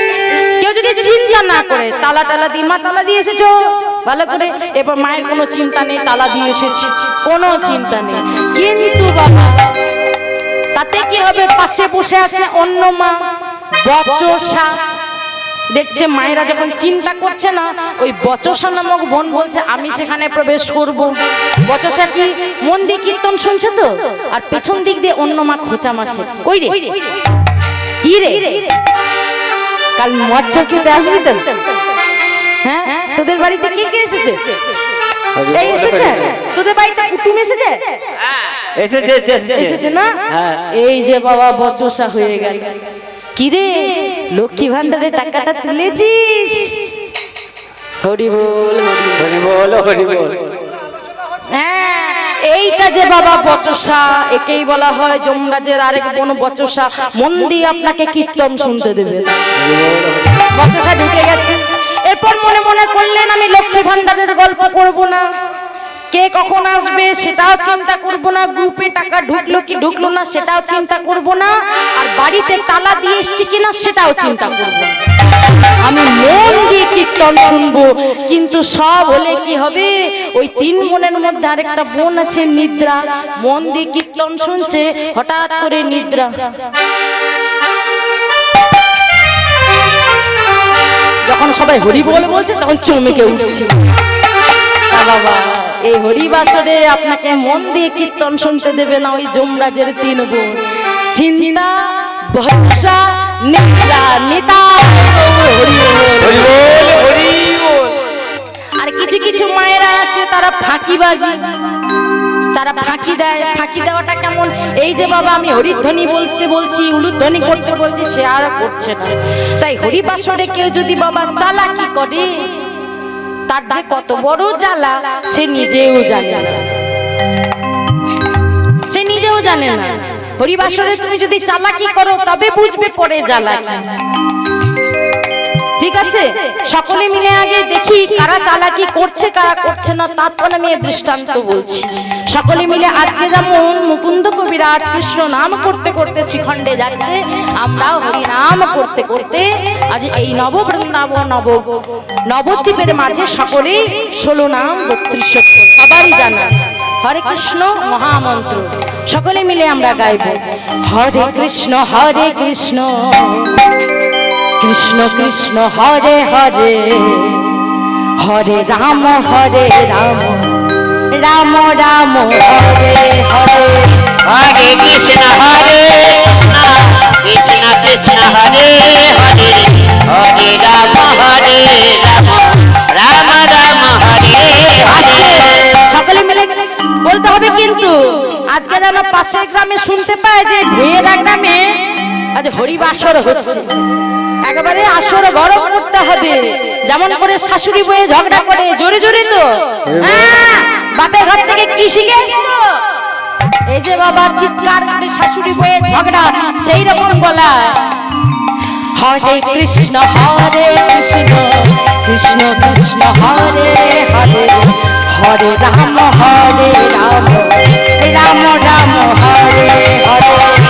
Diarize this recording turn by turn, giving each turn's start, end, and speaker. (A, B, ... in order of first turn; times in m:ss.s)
0:00.6-0:09.7 A
0:10.8-0:13.2 A
0:13.8-0:14.7 A
0:15.7-0:27.2 A
0:28.0-0:28.7 A
0:30.0-0:31.5 A
0:32.6-0:34.4 A
0:35.4-0:36.3 B
0:35.5-0:37.8 A
0:38.8-0:40.7 B
0:39.5-0:40.2 A
0:40.7-0:42.8 A
0:43.4-0:46.9 A
0:48.0-0:49.3 A
0:49.2-0:50.5 B
0:51.5-0:59.4 A
0:59.6-1:00.3 B
1:00.5-1:05.3 A
1:06.1-1:14.9 A
1:15.8-1:26.5 A
1:31.3-1:33.7 A
1:34.9-1:40.6 A
1:41.1-1:46.5 A
1:46.2-1:48.0 B
1:48.8-1:51.5 A
1:52.5-2:02.6 A
2:03.5-2:06.7 A
2:08.9-2:13.9 A
2:15.8-2:43.6 A
2:44.6-2:47.5 A
2:48.2-2:50.6 A
2:51.2-2:54.0 A
2:54.2-3:05.6 C
3:04.8-3:11.8 A
3:12.4-3:13.8 A
3:14.5-3:22.6 A
3:19.9-3:20.3 B
3:23.7-3:27.8 A
3:29.0-3:40.6 A